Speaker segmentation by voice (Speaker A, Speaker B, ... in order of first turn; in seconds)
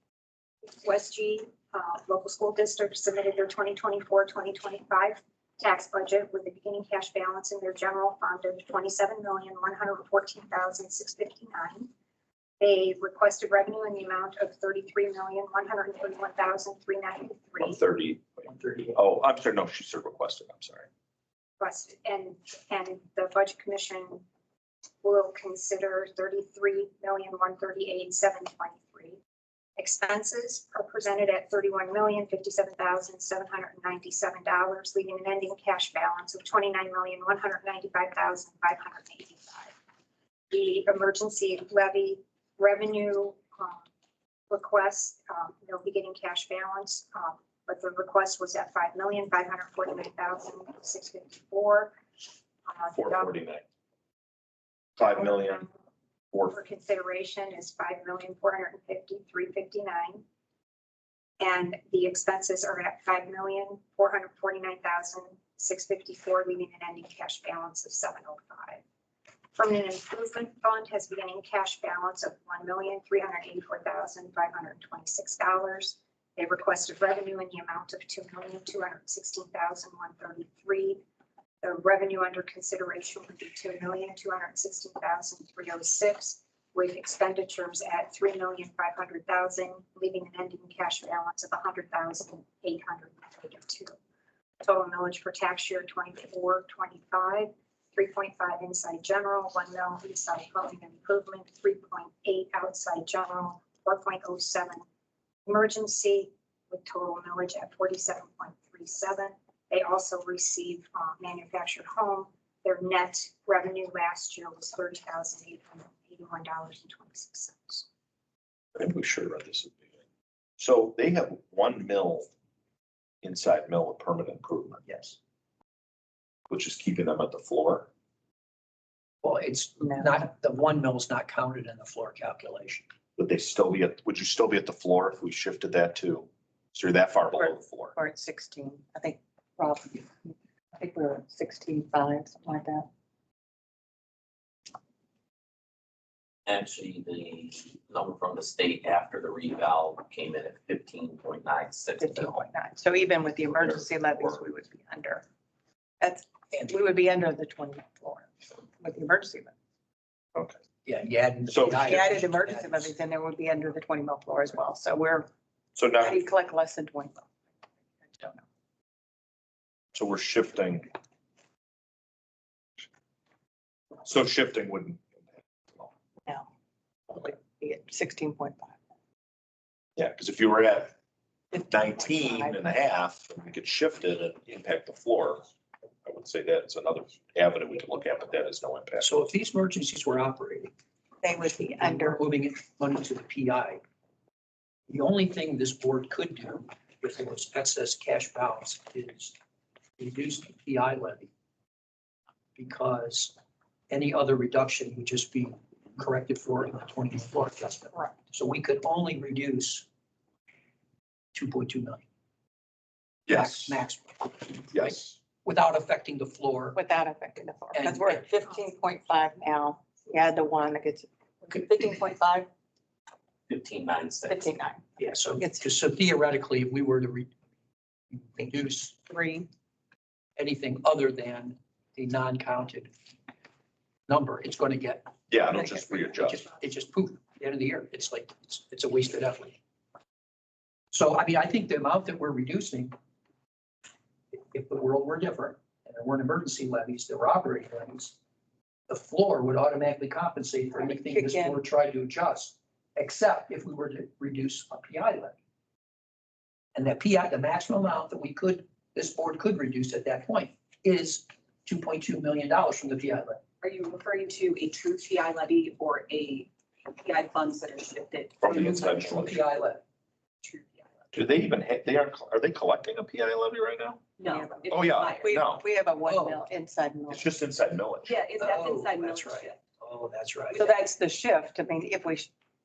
Speaker A: 0.7-11.9, 12.6-17.8, 21.6-24.2, 25.0-29.2, 29.8-39.7, 40.5-43.9, 44.5-52.0, 52.7-53.3, 55.0-55.7, 56.5-60.2, 61.4-68.8, 69.5-81.0, 81.6-94.0, 94.6-104.8, 105.5-117.8
Speaker B: 17.6-20.9, 52.9-53.6, 55.0-55.7, 56.3-56.6, 118.8-119.9, 120.6-122.3, 123.2-124.8, 126.5-127.9, 133.2-137.9, 153.5-154.4, 161.5-162.0, 165.8-166.2, 169.9-170.9, 174.0-175.9, 180.0-180.9, 181.7-185.4, 186.0-189.1, 213.3-213.8, 214.7-215.2, 235.3-236.5, 268.4-269.4, 271.1-274.0, 274.7-275.6, 277.1-278.2
Speaker C: 18.4-19.0, 124.8-125.2, 129.2-132.9, 156.5-156.8, 160.8-162.9, 189.0-190.7, 191.6-193.8, 194.9-199.3, 200.0-201.3, 202.6-203.3, 203.9-209.8, 211.3-212.0, 213.3-216.8, 217.7-218.3, 225.0-227.3, 228.1-229.0, 230.4-232.9, 234.1-239.6, 240.9-242.9, 244.3-248.1, 248.9-255.4, 256.7-263.4, 268.5-269.8, 276.0-276.4, 278.4-280.7
Speaker D: 129.8-130.2, 137.4-142.9, 152.0-155.2, 156.0-159.5, 161.8-165.3, 166.0-167.2, 168.1-168.4, 177.1-178.7, 181.5-182.6, 191.2-192.2, 216.7-222.5, 224.3-225.6, 229.1-229.5, 250.7-251.6, 274.3-274.7, 275.2-277.3, 280.5-282.3
Speaker E: 146.4-152.4, 223.5-224.5
Speaker F: 263.6-269.4, 270.4-270.9, 274.2-275.3, 278.0-279.6, 280.5-280.8